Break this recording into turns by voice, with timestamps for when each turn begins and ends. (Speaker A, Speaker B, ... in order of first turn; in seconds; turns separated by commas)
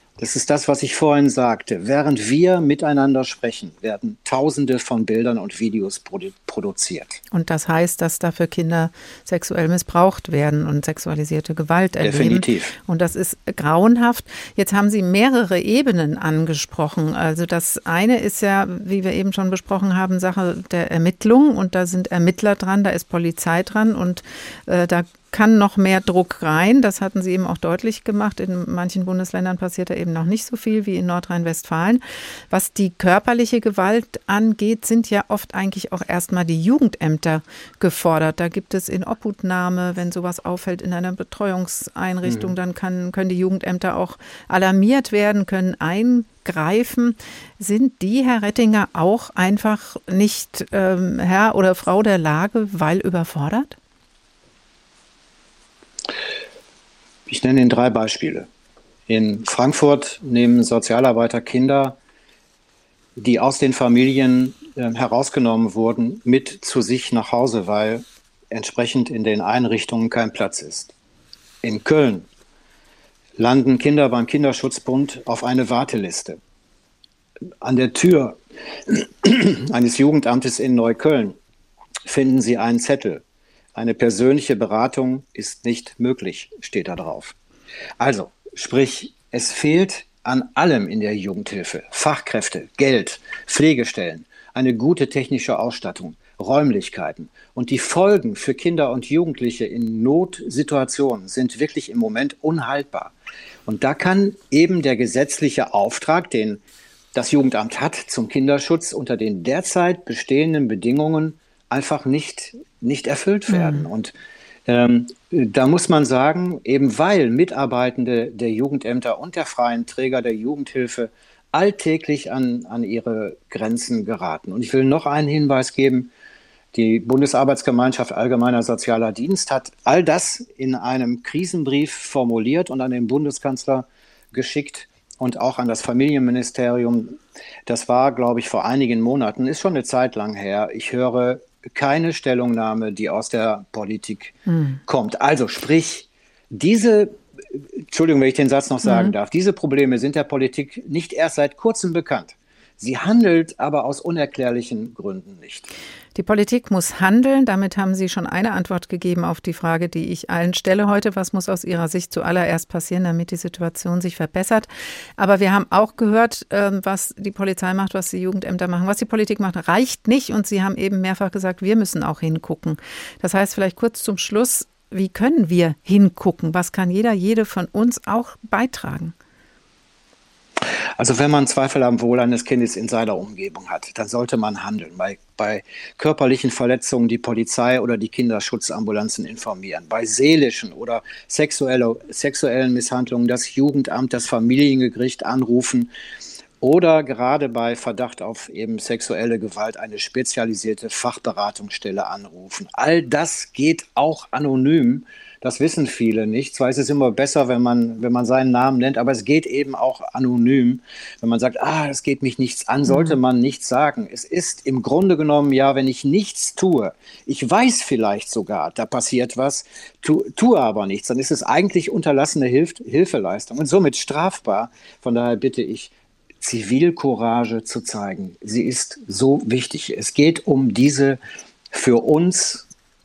Speaker A: 0.2-7.2, Speaker B: 7.3-53.8, Speaker A: 12.0-12.7, Speaker A: 42.2-42.5, Speaker A: 57.3-58.5, Speaker A: 59.1-62.0, Speaker A: 63.2-70.9, Speaker A: 71.6-72.2, Speaker A: 73.4-76.4, Speaker A: 77.6-81.3, Speaker A: 82.1-83.2, Speaker A: 83.7-87.3, Speaker A: 88.0-103.1, Speaker A: 103.7-106.6, Speaker A: 107.1-114.1, Speaker B: 113.5-113.8, Speaker A: 114.7-126.1, Speaker A: 126.7-147.2, Speaker B: 144.5-144.8, Speaker A: 147.9-155.7, Speaker B: 148.8-149.1, Speaker B: 156.1-179.1, Speaker A: 181.0-195.9, Speaker A: 196.6-231.2, Speaker B: 212.9-213.2, Speaker A: 231.7-232.7